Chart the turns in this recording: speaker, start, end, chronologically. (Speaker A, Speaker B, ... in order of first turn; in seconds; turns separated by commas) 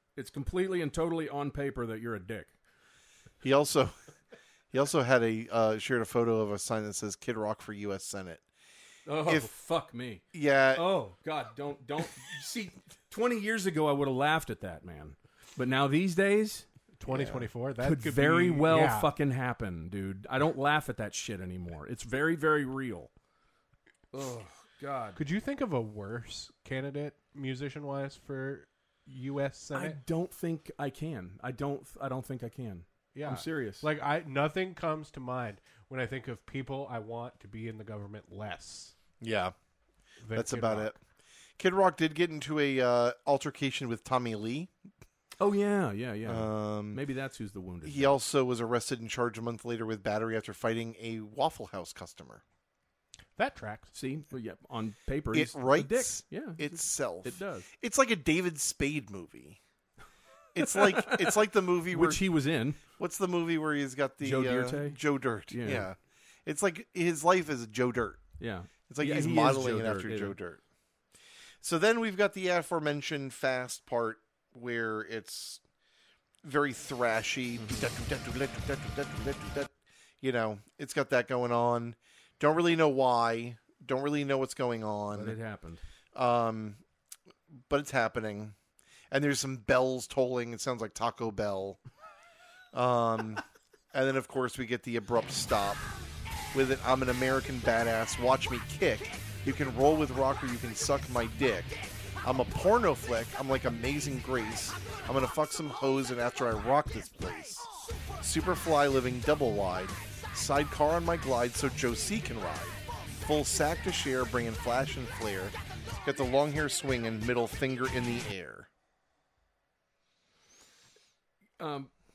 Speaker A: 0.1-2.5, Speaker B: 3.4-3.9, Speaker B: 4.7-8.4, Speaker A: 9.1-16.6, Speaker B: 9.2-9.5, Speaker B: 10.3-10.8, Speaker C: 17.0-19.1, Speaker B: 17.1-17.5, Speaker A: 17.8-23.1, Speaker A: 24.1-25.2, Speaker C: 25.1-30.0, Speaker A: 29.7-33.9, Speaker C: 33.1-38.9, Speaker B: 39.2-39.5, Speaker C: 40.2-40.9, Speaker B: 40.3-41.0, Speaker B: 41.6-44.7, Speaker A: 45.4-48.2, Speaker B: 46.2-47.0, Speaker B: 47.8-52.4, Speaker C: 53.4-53.9, Speaker A: 53.9-57.7, Speaker B: 55.3-59.6, Speaker B: 60.5-62.2, Speaker A: 60.6-62.8, Speaker B: 62.9-68.2, Speaker A: 64.2-65.9, Speaker A: 68.4-70.4, Speaker B: 68.9-70.6, Speaker B: 71.6-75.6, Speaker B: 76.4-85.3, Speaker A: 85.1-85.8, Speaker B: 86.1-86.8, Speaker B: 87.7-88.5, Speaker B: 89.1-91.8, Speaker B: 92.7-93.4, Speaker B: 93.9-95.9, Speaker B: 96.5-118.7, Speaker A: 121.6-121.9